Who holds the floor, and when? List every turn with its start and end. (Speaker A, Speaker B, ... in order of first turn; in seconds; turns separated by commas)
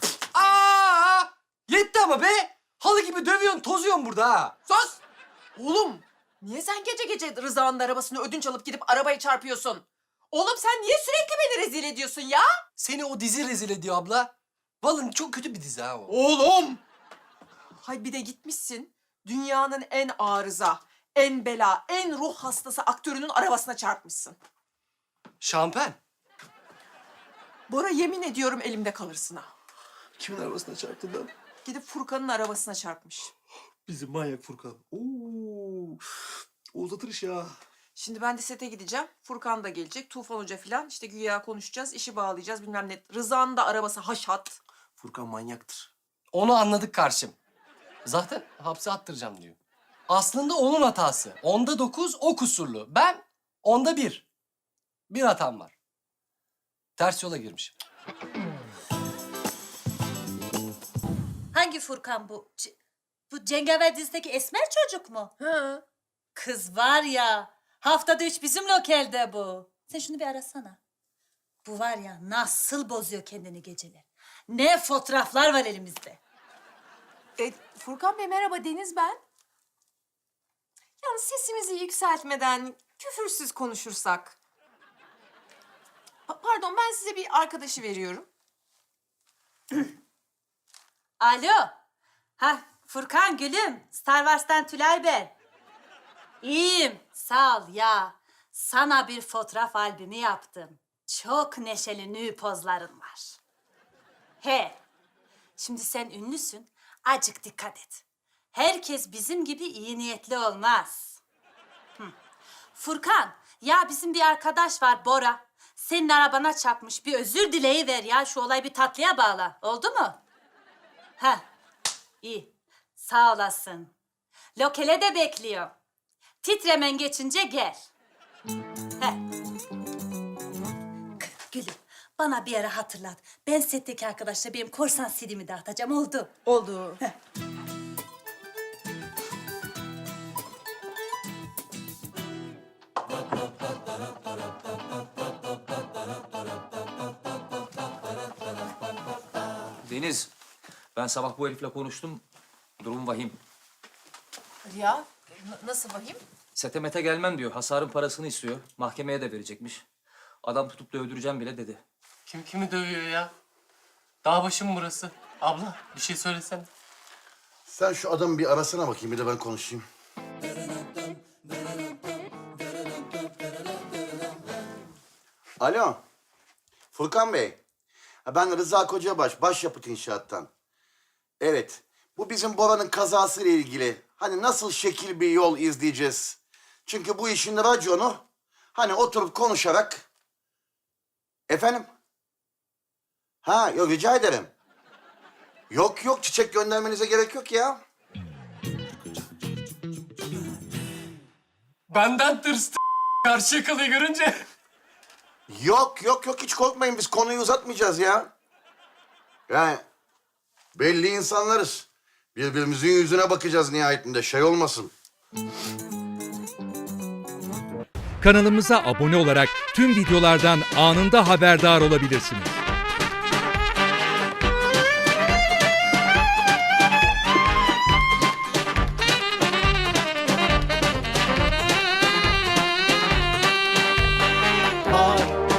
Speaker A: 0.3-4.6, Speaker B: 4.7-5.0, Speaker B: 5.6-12.5, Speaker A: 12.8-16.1, Speaker B: 16.1-16.8, Speaker B: 17.8-24.4, Speaker A: 25.4-26.0, Speaker B: 27.7-29.5, Speaker C: 30.2-31.3, Speaker B: 31.6-33.3, Speaker C: 33.9-36.0, Speaker C: 36.7-37.6, Speaker B: 38.0-44.6, Speaker C: 45.0-45.9, Speaker A: 46.3-47.4, Speaker A: 48.0-54.3, Speaker A: 55.1-55.8, Speaker A: 57.0-57.8, Speaker D: 61.5-62.8, Speaker D: 63.3-65.4, Speaker B: 65.4-65.8, Speaker D: 66.3-70.8, Speaker D: 71.6-76.2, Speaker B: 77.4-79.2, Speaker B: 81.0-84.4, Speaker B: 86.3-88.3, Speaker D: 91.2-91.7, Speaker D: 92.4-95.3, Speaker D: 96.4-103.4, Speaker D: 104.4-104.8, Speaker D: 105.6-111.2, Speaker D: 112.8-120.2, Speaker D: 121.2-121.4, Speaker D: 122.2-123.9, Speaker D: 124.6-125.7, Speaker D: 126.4-127.9, Speaker D: 131.2-136.4, Speaker B: 136.5-137.0, Speaker E: 149.8-150.3, Speaker E: 150.9-152.2, Speaker E: 152.8-153.4, Speaker B: 154.7-156.2, Speaker E: 156.6-159.8, Speaker E: 160.4-161.8, Speaker F: 162.3-163.3, Speaker F: 164.2-166.7, Speaker G: 167.7-169.8, Speaker G: 175.6-176.0, Speaker G: 176.9-177.6, Speaker G: 178.3-180.5, Speaker G: 181.4-188.2, Speaker G: 188.8-190.1, Speaker G: 191.5-191.9, Speaker G: 193.4-194.5, Speaker G: 195.7-197.8, Speaker F: 201.9-204.4, Speaker G: 205.5-208.3, Speaker G: 209.5-209.8, Speaker G: 210.8-214.9, Speaker H: 218.2-222.6, Speaker C: 234.9-235.3